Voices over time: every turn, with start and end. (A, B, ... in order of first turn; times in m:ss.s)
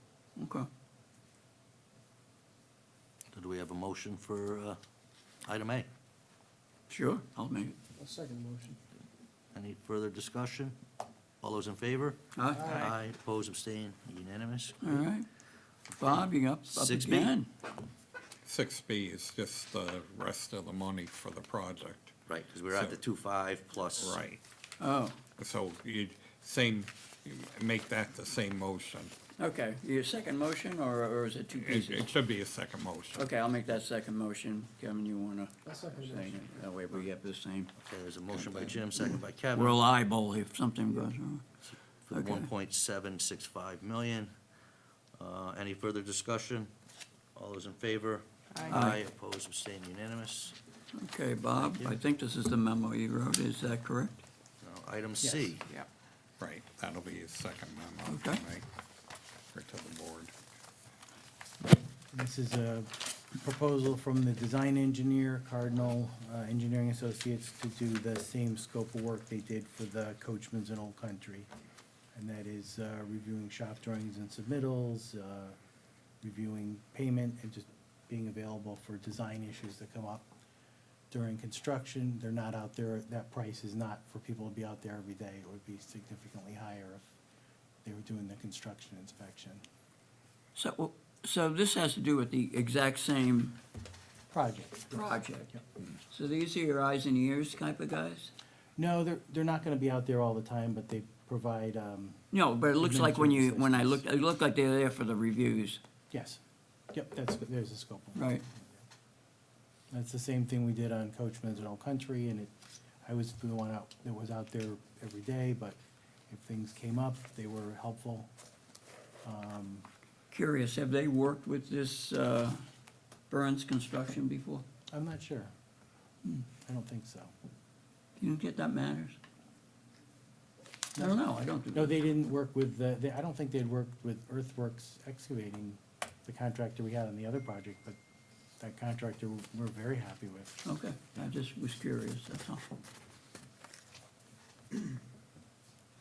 0:00.4-0:00.7 A
0:03.3-0:04.8 B
0:05.4-0:05.9 B
0:06.9-0:07.8 A
0:08.0-0:08.8 C
0:09.5-0:10.8 B
0:11.4-0:15.0 B
0:12.4-0:12.8 A
0:12.6-0:12.9 C
0:14.8-0:15.3 A
0:16.0-0:17.5 A
0:16.0-0:17.4 B
0:18.4-0:22.2 D
0:22.3-0:24.2 B
0:22.7-0:23.0 D
0:24.0-0:24.4 D
0:24.8-0:25.2 A
0:25.4-0:29.2 D
0:29.4-0:32.1 A
0:31.6-0:33.3 D
0:33.2-0:37.7 A
0:35.7-0:36.3 C
0:37.8-0:39.8 B
0:38.3-0:41.4 A
0:41.7-0:44.3 B
0:42.1-0:42.5 A
0:45.2-0:46.7 B
0:47.4-0:50.6 B
0:48.5-0:48.8 C
0:48.7-0:49.0 A
0:50.9-0:54.2 A
0:51.6-0:52.0 B
0:54.6-0:55.6 B
0:55.2-0:55.5 E
0:56.4-0:58.6 D
0:58.1-0:58.4 A
0:59.5-1:00.3 D
1:02.1-1:11.5 E
1:12.2-1:15.6 E
1:16.2-1:20.3 E
1:21.1-1:27.1 E
1:27.8-1:29.6 E
1:30.6-1:33.6 A
1:34.3-1:35.6 E
1:34.9-1:38.3 A
1:38.8-1:42.2 E
1:42.3-1:45.8 A
1:42.8-1:44.0 E
1:46.1-1:46.4 E
1:46.9-1:48.7 E
1:48.2-1:48.4 A
1:49.9-1:52.5 E
1:53.0-1:58.3 E
1:59.2-1:59.9 E
2:00.3-2:02.6 A
2:03.3-2:04.6 A
2:04.9-2:05.5 E
2:06.3-2:07.3 E
2:08.2-2:09.2 A
2:11.0-2:11.2 E
2:11.0-2:12.0 A
2:11.7-2:18.0 E
2:18.6-2:20.6 E
2:20.6-2:22.7 A